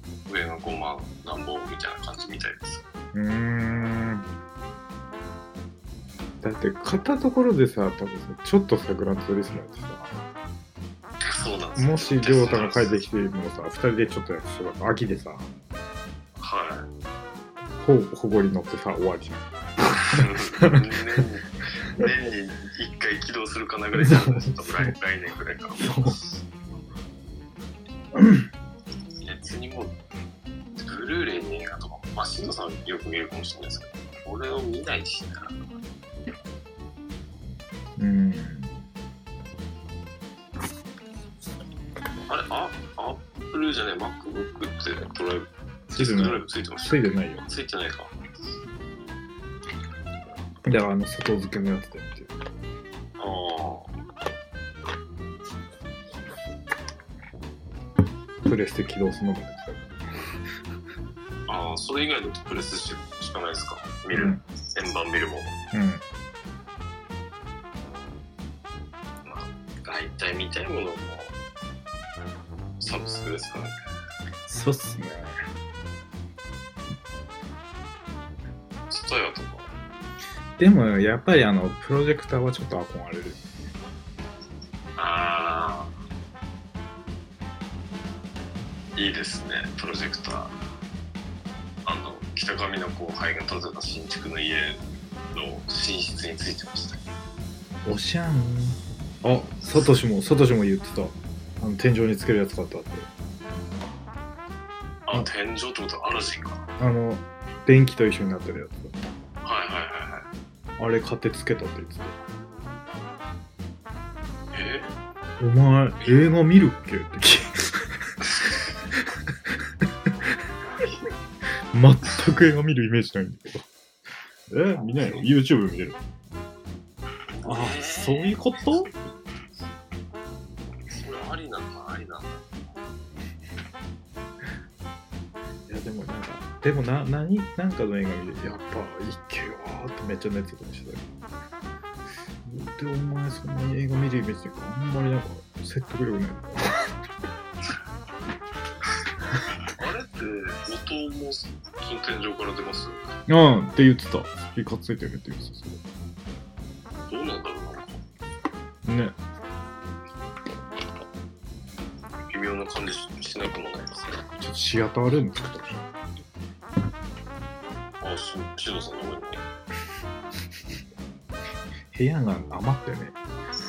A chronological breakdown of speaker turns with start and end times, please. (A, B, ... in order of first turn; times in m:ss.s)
0:00.2-0:02.8 A
0:03.1-0:04.2 B
0:06.4-0:10.2 B
0:11.2-0:13.0 A
0:11.8-0:15.5 B
0:16.4-0:16.9 A
0:17.8-0:19.5 B
0:20.0-0:26.2 A
0:20.1-0:20.8 B
0:23.9-0:24.9 B
0:25.8-0:26.2 B
0:28.1-0:28.5 B
0:29.2-0:29.9 A
0:30.8-0:35.6 A
0:38.0-0:38.8 B
0:42.3-0:48.1 A
0:45.9-0:47.4 B
0:50.6-0:52.3 B
0:53.2-0:53.9 A
0:58.4-0:59.9 B
1:01.5-1:05.6 A
1:04.1-1:04.4 B
1:05.7-1:06.0 B
1:09.2-1:11.3 A
1:12.8-1:13.7 A
1:14.5-1:15.3 B
1:18.9-1:19.7 A
1:20.6-1:23.4 B
1:25.0-1:25.9 A
1:29.0-1:30.5 A
1:31.8-1:34.8 A
1:35.3-1:37.0 A
1:37.8-1:43.1 B
1:45.0-1:46.7 A
1:46.8-1:48.9 B
1:49.4-1:50.3 A
1:50.8-1:52.2 B
1:54.5-1:54.9 A
1:55.4-1:58.1 B
1:56.0-1:56.3 A
1:58.9-1:59.3 B
1:59.9-2:00.3 B
2:01.7-2:03.6 B
2:04.5-2:06.0 B
2:04.8-2:05.3 A
2:07.3-2:08.4 A
2:07.4-2:08.9 B
2:10.9-2:12.7 A
2:15.7-2:21.0 B
2:22.4-2:27.0 B
2:29.6-2:33.0 A
2:33.3-2:35.8 B
2:37.1-2:38.0 A
2:38.8-2:39.2 B
2:42.3-2:44.1 A
2:44.4-2:45.9 B
2:48.0-2:49.4 A
2:51.9-2:53.1 B